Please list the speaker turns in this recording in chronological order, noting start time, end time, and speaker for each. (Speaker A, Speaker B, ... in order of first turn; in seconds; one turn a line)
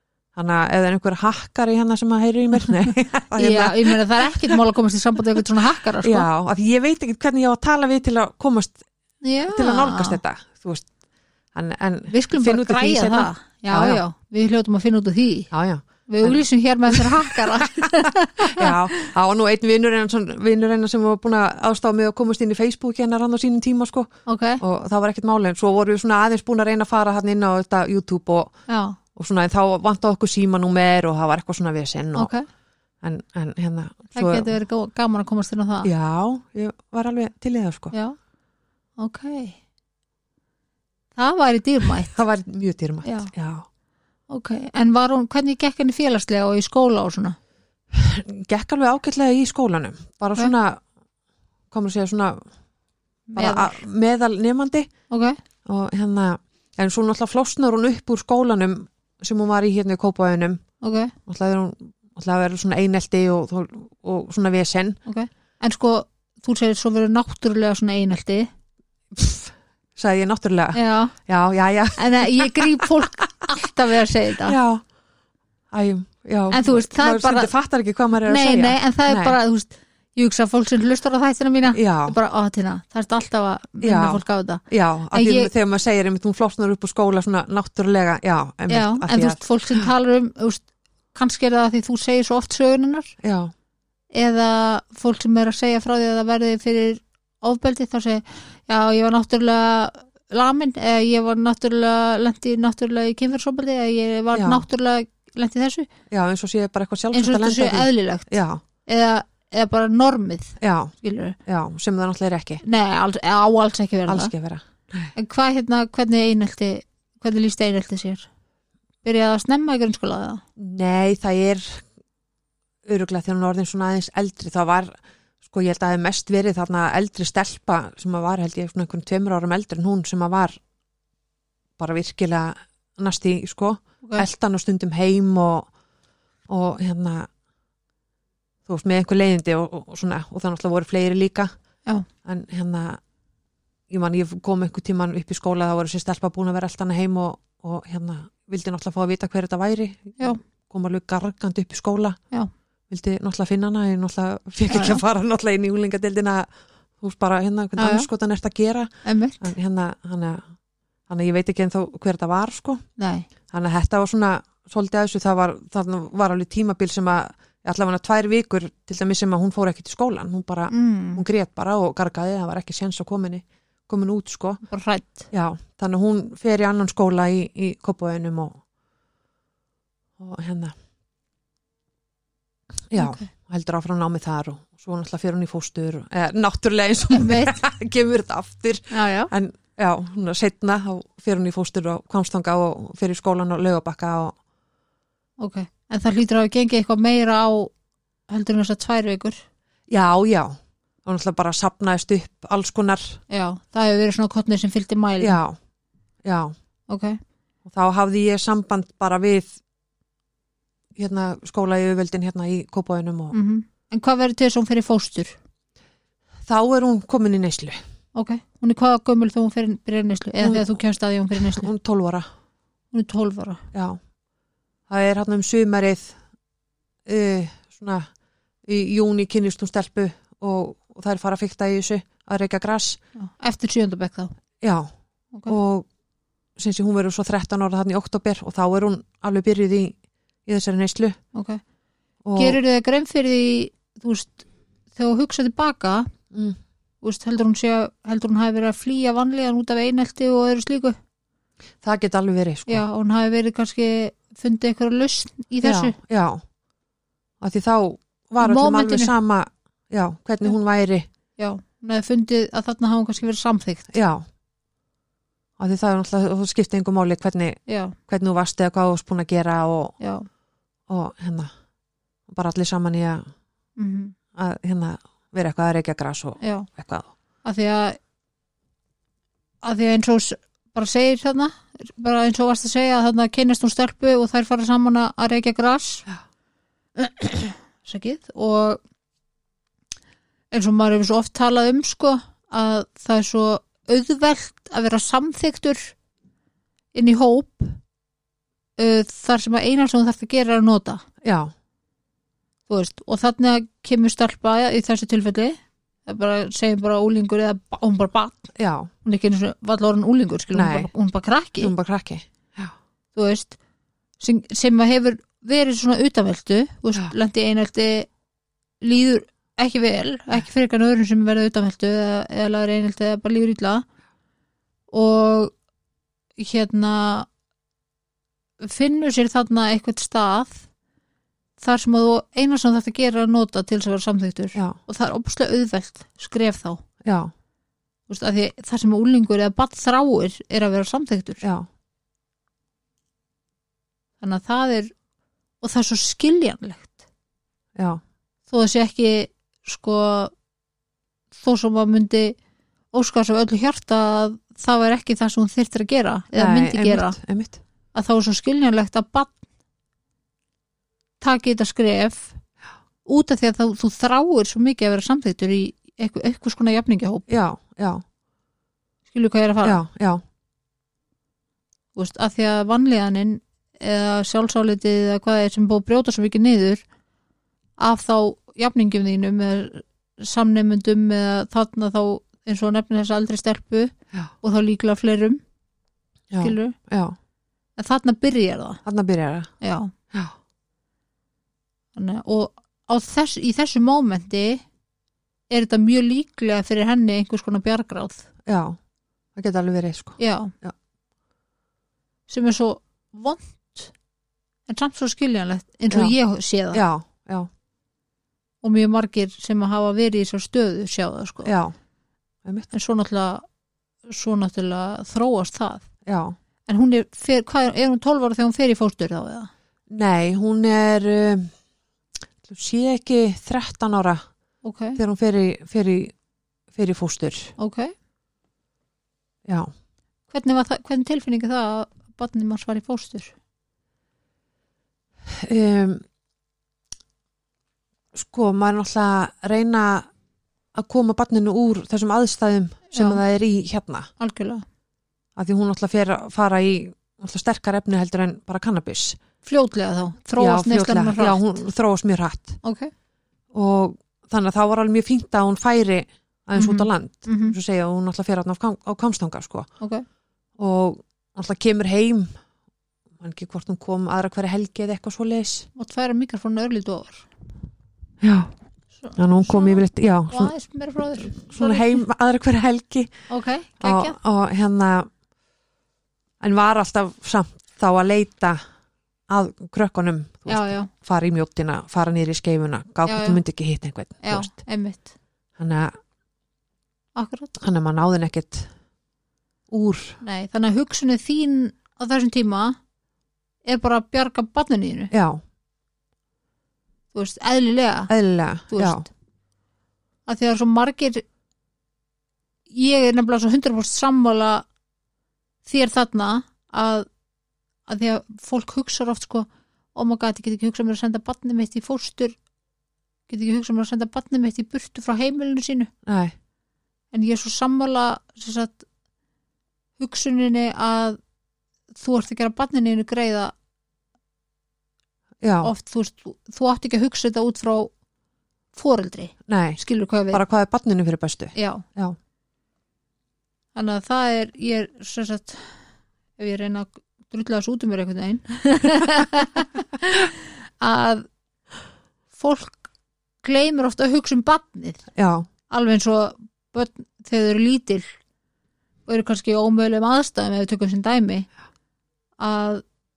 Speaker A: 0.3-4.6
Speaker B: 3.3-6.3
Speaker A: 6.0-8.8
Speaker B: 9.2-10.2
Speaker A: 9.5-10.9
Speaker A: 11.5-14.0
Speaker B: 12.1-15.5
Speaker A: 15.5-28.5
Speaker B: 16.1-19.1
Speaker B: 24.3-24.6
Speaker B: 28.7-29.0
Speaker A: 29.1-32.3
Speaker B: 32.1-32.4
Speaker A: 33.0-34.5
Speaker B: 34.1-35.9
Speaker A: 35.8-37.9
Speaker B: 39.0-39.5
Speaker B: 41.1-42.2
Speaker A: 42.1-43.6
Speaker B: 43.0-43.3
Speaker B: 44.3-47.4
Speaker A: 47.9-50.8
Speaker A: 51.7-52.5
Speaker B: 53.3-53.8
Speaker A: 53.4-54.9
Speaker B: 55.1-55.4
Speaker A: 55.6-60.6
Speaker B: 60.8-61.1
Speaker A: 61.2-65.0
Speaker B: 65.0-68.5
Speaker A: 69.1-72.9
Speaker B: 70.7-71.1
Speaker B: 72.0-74.6
Speaker A: 74.4-74.8
Speaker A: 75.7-79.3
Speaker B: 76.5-77.5
Speaker B: 78.2-85.5
Speaker A: 81.7-82.2
Speaker A: 83.8-89.9
Speaker B: 88.7-93.1
Speaker A: 93.2-93.5
Speaker B: 94.1-105.9
Speaker A: 104.3-104.6
Speaker A: 106.1-108.6
Speaker B: 107.1-108.3
Speaker B: 108.8-111.3
Speaker A: 110.6-110.9
Speaker A: 111.5-112.6
Speaker B: 112.6-114.3
Speaker A: 114.1-115.1
Speaker B: 115.2-118.3
Speaker B: 119.0-120.4
Speaker A: 120.6-121.8
Speaker A: 122.8-130.6
Speaker A: 131.8-135.7
Speaker A: 136.5-137.3
Speaker A: 138.7-141.5
Speaker A: 142.2-143.0
Speaker A: 143.9-152.2
Speaker A: 152.9-156.5
Speaker B: 154.7-155.0
Speaker A: 157.0-158.9
Speaker B: 157.8-158.1
Speaker B: 159.0-159.5
Speaker A: 159.4-160.4
Speaker A: 161.1-162.8
Speaker B: 163.0-163.3
Speaker A: 163.5-174.6
Speaker B: 170.7-171.2
Speaker B: 174.7-175.3
Speaker A: 175.3-178.6
Speaker A: 180.2-180.7
Speaker A: 182.9-194.3
Speaker B: 183.0-183.3
Speaker B: 187.1-187.6
Speaker B: 188.9-189.3
Speaker B: 195.4-197.7
Speaker B: 198.3-199.4
Speaker A: 199.9-203.2
Speaker B: 203.3-205.4
Speaker A: 205.2-205.6
Speaker A: 206.2-206.5
Speaker B: 206.9-207.2
Speaker A: 207.6-209.5
Speaker A: 210.9-213.3
Speaker B: 213.3-215.3
Speaker A: 216.4-217.8
Speaker B: 218.1-221.7
Speaker A: 220.4-220.8
Speaker A: 221.3-222.2
Speaker B: 222.9-223.6
Speaker A: 223.7-224.0
Speaker A: 224.9-226.2
Speaker A: 227.1-228.1
Speaker A: 228.7-233.0
Speaker B: 233.2-234.3
Speaker A: 234.6-234.9
Speaker A: 235.5-235.8
Speaker A: 236.6-241.2
Speaker B: 241.3-241.6
Speaker A: 242.2-242.6
Speaker B: 242.3-246.1
Speaker A: 246.3-246.6
Speaker B: 247.0-251.0
Speaker A: 251.8-252.8
Speaker B: 252.7-255.9
Speaker A: 255.6-256.4
Speaker A: 257.4-261.1
Speaker B: 258.4-259.1
Speaker B: 261.4-263.9
Speaker A: 263.9-264.2
Speaker A: 265.6-269.9
Speaker B: 267.7-268.0
Speaker B: 270.0-270.2
Speaker A: 270.9-271.5
Speaker A: 272.3-273.2
Speaker B: 273.8-274.1
Speaker A: 274.3-277.1
Speaker B: 276.4-276.7
Speaker B: 277.4-278.0
Speaker B: 279.6-286.1
Speaker B: 287.0-288.8
Speaker B: 290.5-295.9
Speaker B: 296.9-297.8
Speaker B: 298.8-301.0
Speaker A: 301.2-301.5
Speaker B: 302.7-308.5
Speaker A: 308.5-308.9
Speaker B: 309.0-311.7
Speaker A: 310.5-310.9
Speaker A: 311.6-312.7
Speaker B: 313.1-313.6
Speaker B: 314.2-318.1
Speaker B: 318.8-323.8
Speaker B: 324.9-325.5
Speaker B: 326.4-327.3
Speaker B: 328.6-330.6
Speaker B: 331.6-336.8
Speaker A: 337.0-337.3
Speaker B: 338.1-341.4
Speaker A: 341.4-341.7
Speaker B: 344.2-344.9
Speaker B: 345.6-347.0
Speaker A: 347.8-348.0
Speaker B: 348.5-350.3
Speaker B: 351.3-352.4
Speaker B: 352.9-357.1
Speaker A: 356.4-357.6
Speaker B: 357.9-359.4
Speaker B: 361.2-362.4
Speaker B: 363.1-367.2
Speaker A: 367.3-368.0
Speaker B: 369.1-369.8
Speaker A: 369.6-370.2
Speaker B: 371.9-376.8
Speaker B: 377.8-385.4
Speaker A: 386.3-387.1
Speaker B: 386.4-386.7
Speaker B: 387.8-388.8
Speaker A: 388.8-389.5
Speaker B: 389.6-389.9
Speaker B: 391.9-394.6
Speaker B: 395.5-398.2
Speaker A: 398.4-398.8
Speaker A: 399.4-400.7
Speaker B: 400.2-400.5
Speaker B: 402.3-403.9
Speaker B: 404.7-406.8
Speaker A: 405.9-406.1
Speaker A: 406.7-407.5
Speaker B: 408.6-411.5
Speaker A: 411.4-411.7
Speaker B: 412.7-413.4
Speaker B: 414.1-415.9
Speaker A: 416.1-416.3
Speaker B: 416.7-419.5
Speaker A: 419.9-421.5
Speaker A: 422.4-424.2
Speaker B: 424.6-425.0
Speaker A: 425.0-426.1
Speaker A: 426.7-427.5
Speaker B: 427.6-427.9
Speaker B: 430.3-433.3
Speaker A: 435.3-436.0
Speaker A: 438.1-440.1
Speaker A: 440.7-444.1
Speaker B: 442.9-443.2
Speaker B: 444.2-444.6
Speaker A: 445.4-449.2
Speaker B: 449.4-451.5
Speaker A: 450.4-452.6
Speaker B: 452.6-452.9
Speaker A: 453.5-459.7
Speaker B: 456.5-457.6
Speaker A: 460.6-462.3
Speaker A: 463.2-465.7
Speaker B: 465.8-467.3
Speaker A: 468.2-468.5
Speaker B: 469.0-472.0
Speaker A: 469.2-470.5
Speaker A: 471.2-473.1
Speaker B: 473.3-474.2
Speaker A: 473.8-475.1
Speaker A: 476.4-478.6
Speaker A: 479.3-484.5
Speaker B: 480.5-480.9
Speaker B: 483.1-483.4
Speaker B: 484.2-485.1
Speaker A: 485.6-485.9
Speaker B: 487.1-487.5
Speaker A: 487.6-488.7
Speaker A: 489.7-490.2
Speaker B: 490.2-492.8
Speaker B: 493.6-495.1
Speaker A: 495.1-495.4
Speaker B: 497.1-498.1
Speaker A: 498.1-499.1
Speaker B: 498.7-499.1
Speaker B: 500.3-501.2
Speaker B: 502.7-504.6
Speaker B: 505.6-507.1
Speaker B: 507.9-512.4
Speaker B: 513.3-515.9
Speaker A: 516.0-516.3
Speaker B: 517.1-518.8
Speaker B: 520.0-521.2
Speaker B: 522.0-523.5
Speaker A: 525.4-525.7
Speaker B: 525.6-527.9
Speaker B: 528.7-530.4
Speaker A: 529.5-529.8
Speaker A: 530.3-532.1
Speaker B: 531.5-531.8
Speaker B: 533.7-535.8
Speaker B: 536.4-541.2
Speaker B: 542.3-542.9
Speaker B: 543.4-545.0
Speaker A: 545.1-545.5
Speaker B: 545.7-548.1
Speaker B: 549.1-551.5
Speaker B: 552.4-552.8